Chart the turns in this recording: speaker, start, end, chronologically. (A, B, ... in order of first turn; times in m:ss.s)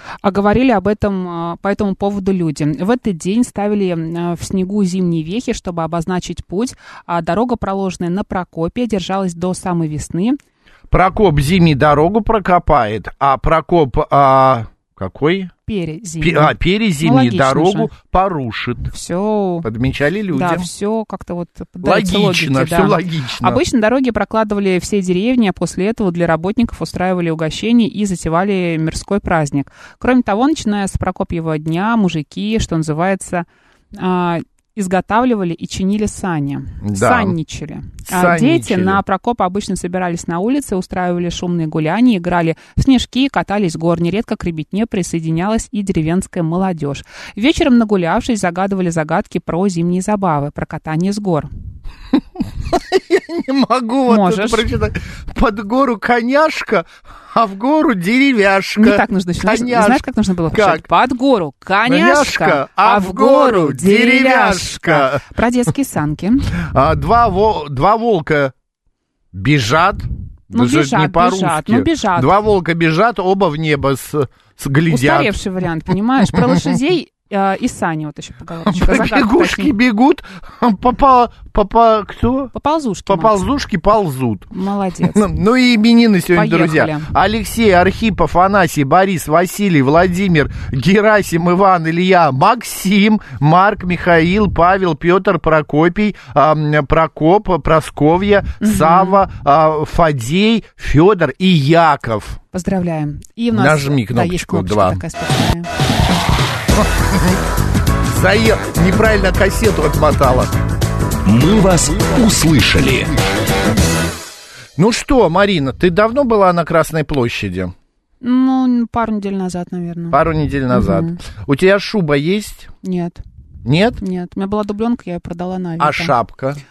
0:00.2-0:10.4 A
0:10.9-0:15.5 B
0:15.6-0:17.9 A
0:16.2-0:18.9 B
0:18.9-0:19.6 A
0:19.6-0:20.7 B
0:20.3-0:51.5 A
0:21.8-0:23.6 B
0:36.8-0:37.4 B
0:38.1-0:39.0 B
0:52.4-1:00.8 B
0:54.1-0:54.6 A
0:58.8-1:06.5 A
1:01.8-1:05.2 B
1:06.5-1:08.5 B
1:09.3-1:15.3 B
1:10.5-1:12.3 A
1:14.9-1:19.7 A
1:16.3-1:16.6 B
1:18.6-1:22.5 B
1:22.5-1:23.5 A
1:23.1-1:24.5 B
1:24.5-1:25.2 A
1:25.1-1:42.4 B
1:26.3-1:27.1 A
1:38.6-1:39.2 A
1:42.5-1:45.7 A
1:43.5-1:45.0 B
1:46.7-1:47.4 B
1:48.0-1:50.5 B
1:51.2-1:53.2 C
1:54.8-1:57.7 B
1:58.2-2:01.2 A
2:00.1-2:02.7 B
2:02.8-2:03.2 A
2:03.6-2:04.0 B
2:04.0-2:06.1 A
2:05.8-2:06.6 B